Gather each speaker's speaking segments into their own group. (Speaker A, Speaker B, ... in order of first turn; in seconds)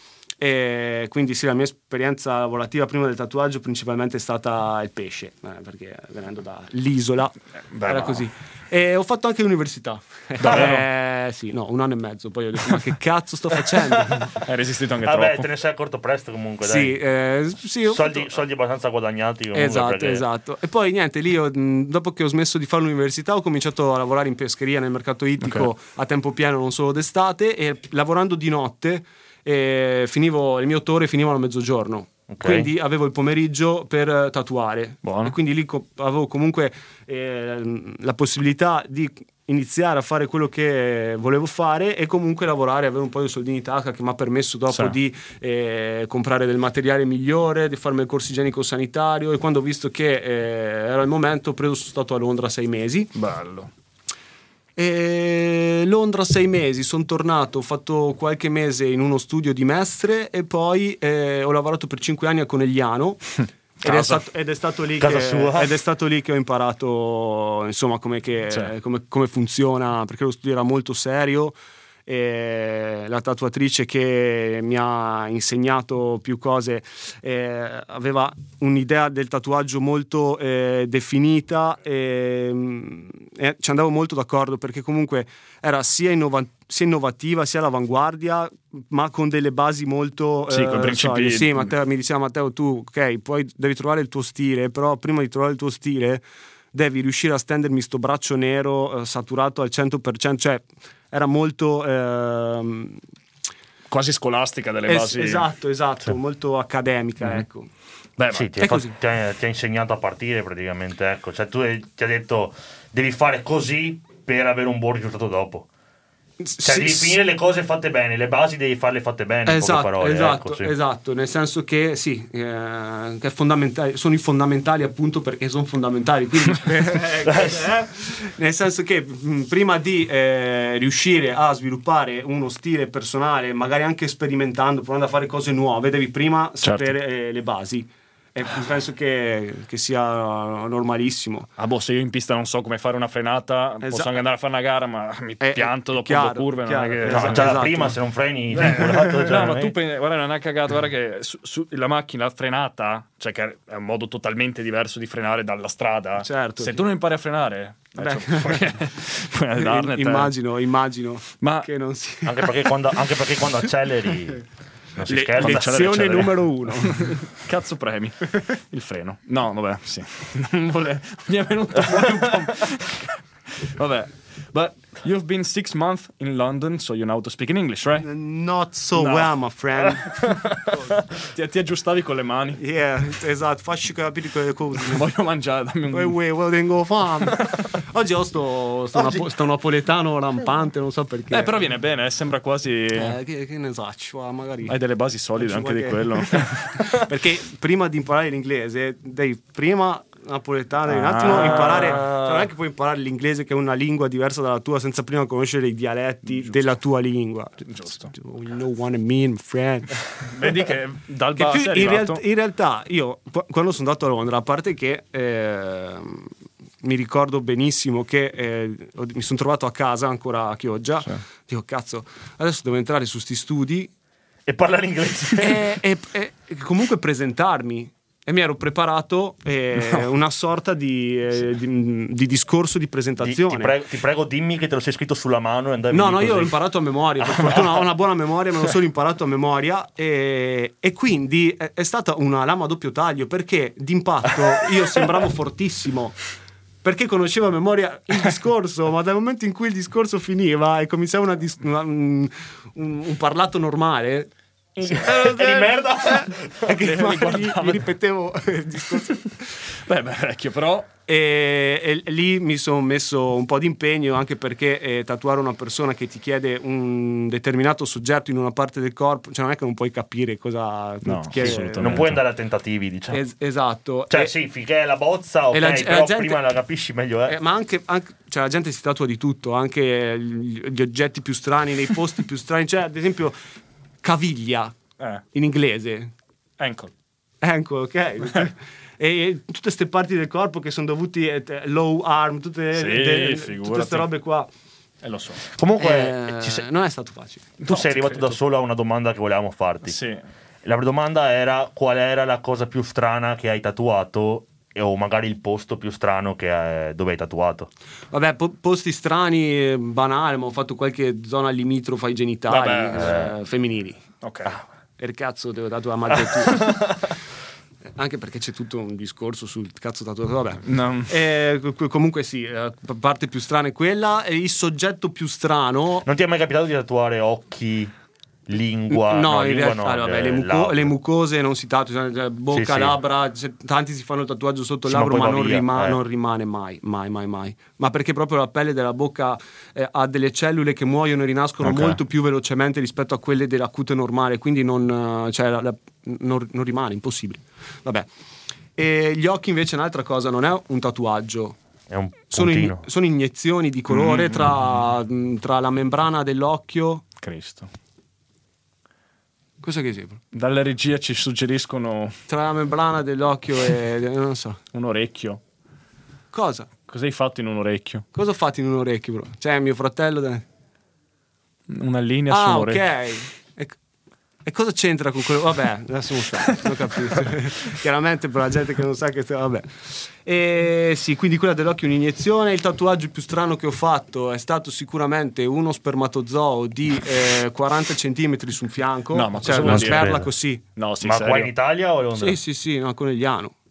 Speaker A: 0.4-14.4, 16.6-18.4, 19.5-53.1, 54.8-103.0, 104.9-107.7, 108.6-108.9, 116.4-117.2, 119.5-141.5, 143.8-144.1, 145.4-148.0, 156.2-156.8, 158.0-158.7, 159.6-162.7, 165.1-167.2, 178.0-181.0, 182.6-185.1, 185.9-191.6, 192.9-194.8, 195.4-210.0, 211.3-223.9, 225.4-233.7, 235.9-246.2, 246.8-254.3, 254.8-259.5, 261.1-272.0, 273.1-274.3, 275.5-276.4, 277.3-283.4, 284.0-284.8, 285.3-286.1, 287.4-294.5, 295.8-297.7, 308.1-314.0, 315.0-316.9, 318.0-326.1, 328.9-348.1, 348.8-351.6, 352.3-357.1, 359.6-360.2, 362.3-364.6, 366.3-366.7, 368.1-370.4, 372.3-373.8, 374.4-390.6, 392.2-393.5
Speaker B: 7.7-8.3, 10.4-10.8, 14.4-15.5, 25.4-25.7, 35.0-35.4, 44.7-45.0, 53.1-53.7, 63.9-64.2, 90.5-91.7, 103.9-105.5, 108.2-108.6, 136.6-136.9, 141.6-147.7, 148.5-160.3, 161.4-161.7, 165.4-178.1, 179.0-182.6, 184.8-186.2, 191.3-193.2, 194.7-197.0, 200.9-202.3, 207.7-208.1, 210.2-212.2, 256.7-257.9, 259.7-260.9, 271.0-272.2, 286.6-286.9, 292.7-294.1, 295.0-295.4, 297.6-298.3, 299.9-300.2, 312.5-313.3, 314.2-314.6, 320.7-321.1, 341.6-341.9, 353.9-354.8, 357.2-357.7, 360.3-362.2, 364.7-365.4, 366.9-368.1, 371.7-372.9, 376.6-377.3, 389.1-391.5
Speaker C: 15.0-17.0, 17.9-20.2, 32.3-32.7, 65.0-65.7, 108.3-115.7, 116.6-120.7, 127.3-127.7, 147.1-149.8, 162.3-164.4, 165.0-166.3, 224.5-225.8, 233.2-236.6, 254.8-256.7, 271.4-273.2, 274.1-277.4, 295.5-296.6, 297.6-300.0, 300.6-307.7, 313.0-313.3, 316.6-316.8, 326.1-327.9, 328.5-330.9, 332.5-333.0, 334.9-336.0, 351.9-352.8, 389.5-390.3, 391.0-392.4